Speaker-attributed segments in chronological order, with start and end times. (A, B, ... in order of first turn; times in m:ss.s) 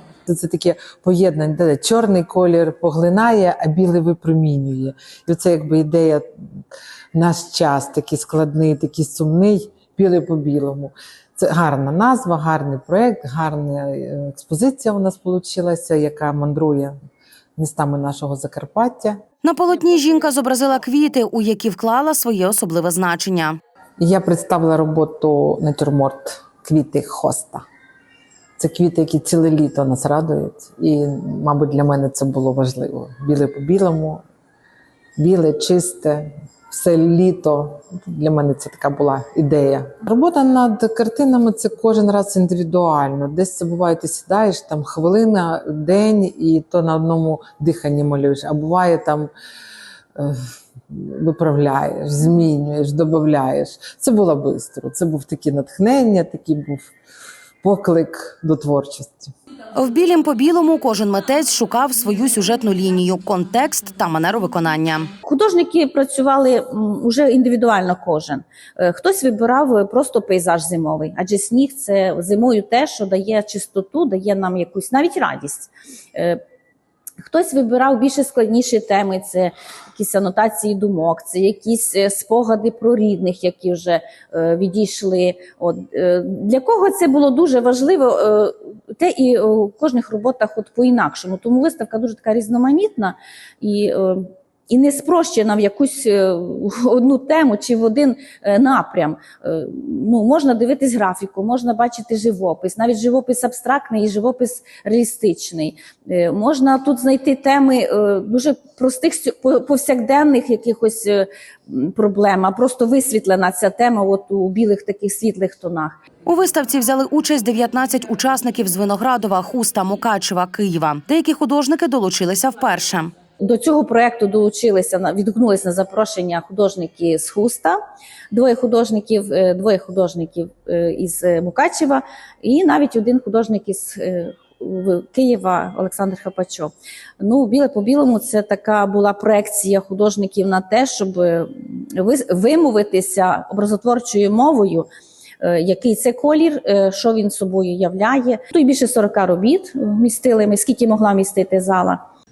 0:00.2-0:06.3 A
0:07.1-0:17.0 A
0:17.6-0:19.2 A
0:19.4-0:23.6 B
0:24.0-0:27.6 A
0:28.6-0:34.2 A
0:35.2-0:49.3 A
0:50.2-0:56.9 A
0:57.6-0:59.3 A
0:59.7-1:05.1 B
1:05.2-1:16.4 C
1:17.2-1:56.0 C
1:56.2-2:03.1 B
2:03.4-2:07.8 C
2:08.3-2:24.9 C
2:25.4-2:32.0 C